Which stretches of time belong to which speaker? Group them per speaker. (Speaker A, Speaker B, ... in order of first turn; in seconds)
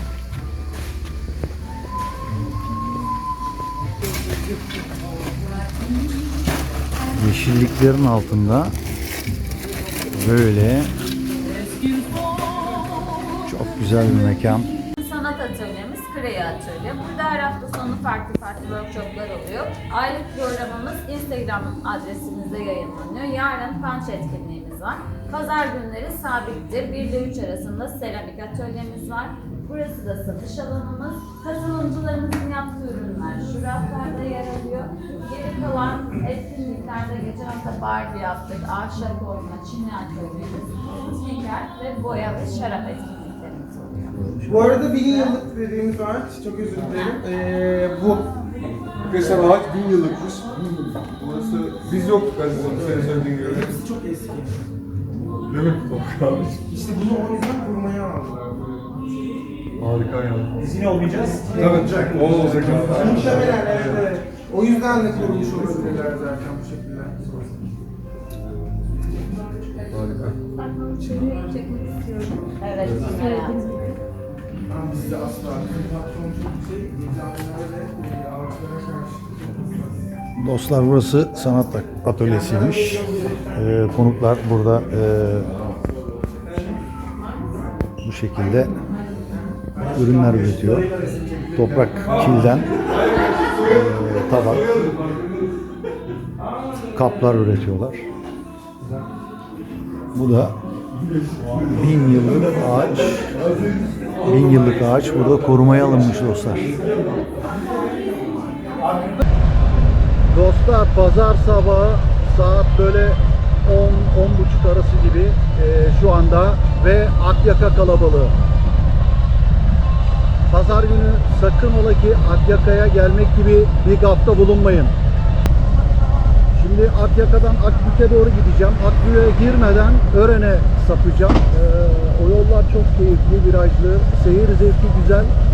Speaker A: 7.1-8.7, 10.1-10.9, 13.4-14.7, 60.9-61.4, 80.3-85.6, 88.0-88.8, 89.8-90.9, 91.5-92.7, 93.6-95.0, 96.8-98.0, 100.1-100.5, 101.6-103.4, 104.2-106.7, 110.3-118.3, 120.5-124.9, 126.5-135.3
Speaker B: 14.8-45.4, 70.5-74.0
Speaker C: 44.4-48.4, 52.5-54.6, 56.7-59.0, 61.1-67.5, 74.7-79.8
Speaker D: 49.0-50.5, 51.1-53.7, 55.5-56.6, 59.8-60.7, 61.5-63.8, 69.9-70.4